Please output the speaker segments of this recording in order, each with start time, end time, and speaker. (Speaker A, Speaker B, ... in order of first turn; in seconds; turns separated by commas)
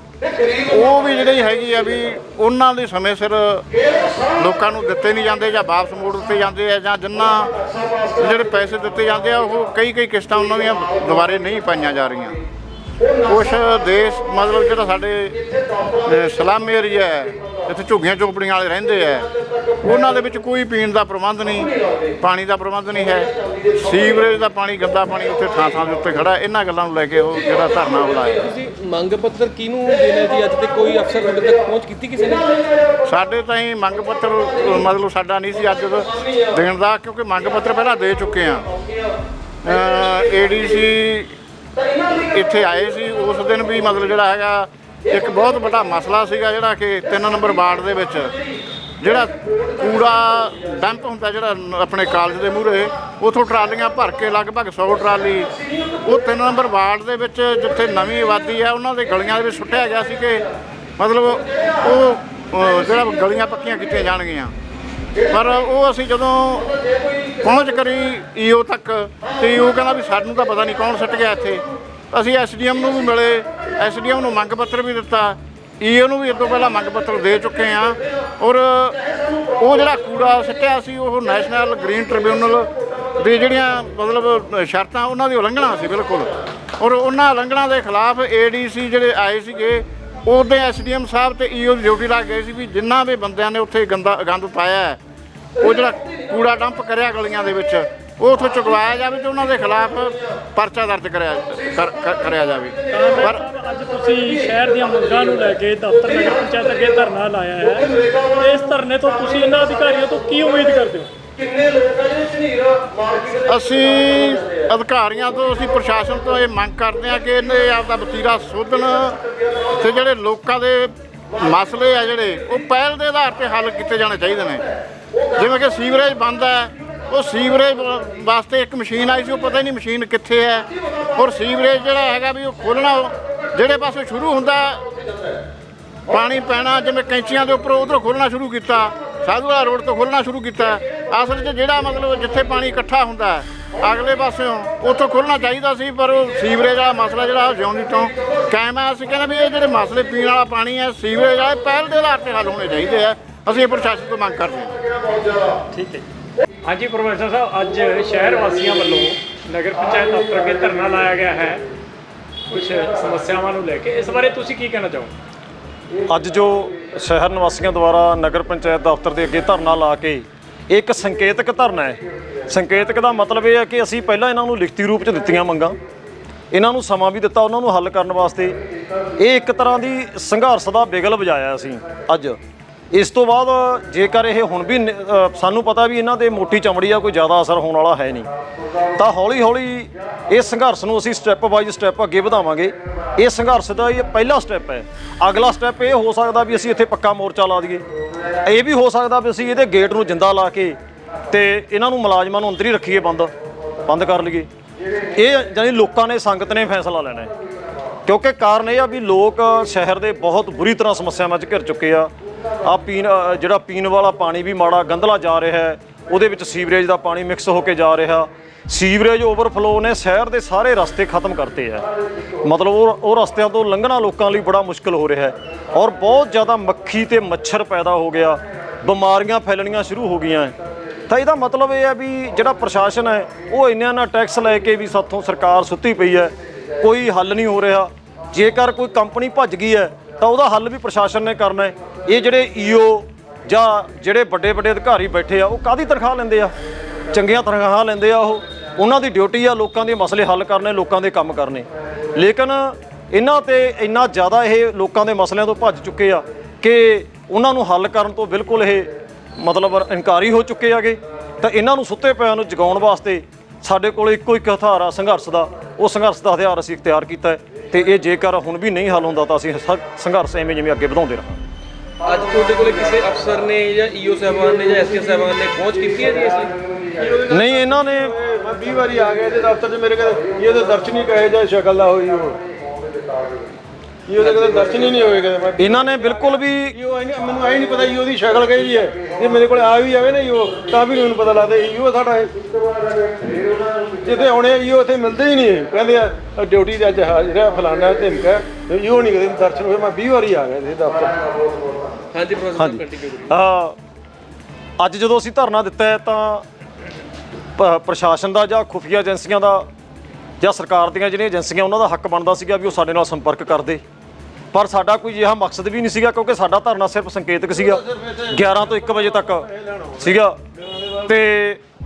Speaker A: 0.7-3.7, Speaker A: 4.4-7.5, Speaker A: 8.2-12.4, Speaker A: 13.2-15.4, Speaker A: 16.0-19.3, Speaker A: 19.8-28.4, Speaker B: 28.4-32.6, Speaker A: 33.0-38.6, Speaker A: 39.6-41.3, Speaker A: 42.3-48.3, Speaker A: 49.0-55.5, Speaker A: 56.0-60.5, Speaker A: 61.0-64.5, Speaker A: 65.3-66.7, Speaker A: 67.4-79.0, Speaker A: 79.6-95.0, Speaker A: 95.6-103.4, Speaker C: 102.9-111.1, Speaker A: 113.4-119.2, Speaker A: 119.8-124.6, Speaker A: 125.3-134.8, Speaker A: 136.1-154.7, Speaker C: 156.6-161.6, Speaker C: 162.5-165.1, Speaker D: 166.1-175.8, Speaker D: 176.5-178.6, Speaker D: 179.2-182.4, Speaker D: 182.9-188.3, Speaker D: 188.9-197.8, Speaker D: 198.4-200.8, Speaker D: 201.3-203.3, Speaker D: 203.9-204.5, Speaker D: 205.1-207.3, Speaker D: 208.0-212.1, Speaker D: 212.6-221.8, Speaker D: 222.4-230.5, Speaker D: 231.1-246.5, Speaker D: 247.1-271.4, Speaker B: 272.0-276.6, Speaker E: 277.0-282.4, Speaker D: 277.3-278.1, Speaker E: 284.1-292.3, Speaker B: 284.2-284.8, Speaker D: 285.6-286.8, Speaker E: 294.0-301.3, Speaker B: 302.1-303.3, Speaker D: 302.5-303.8, Speaker D: 304.8-306.4, Speaker D: 307.6-309.6, Speaker D: 310.4-313.8, Speaker D: 314.5-320.4, Speaker E: 318.9-320.1, Speaker D: 320.9-321.6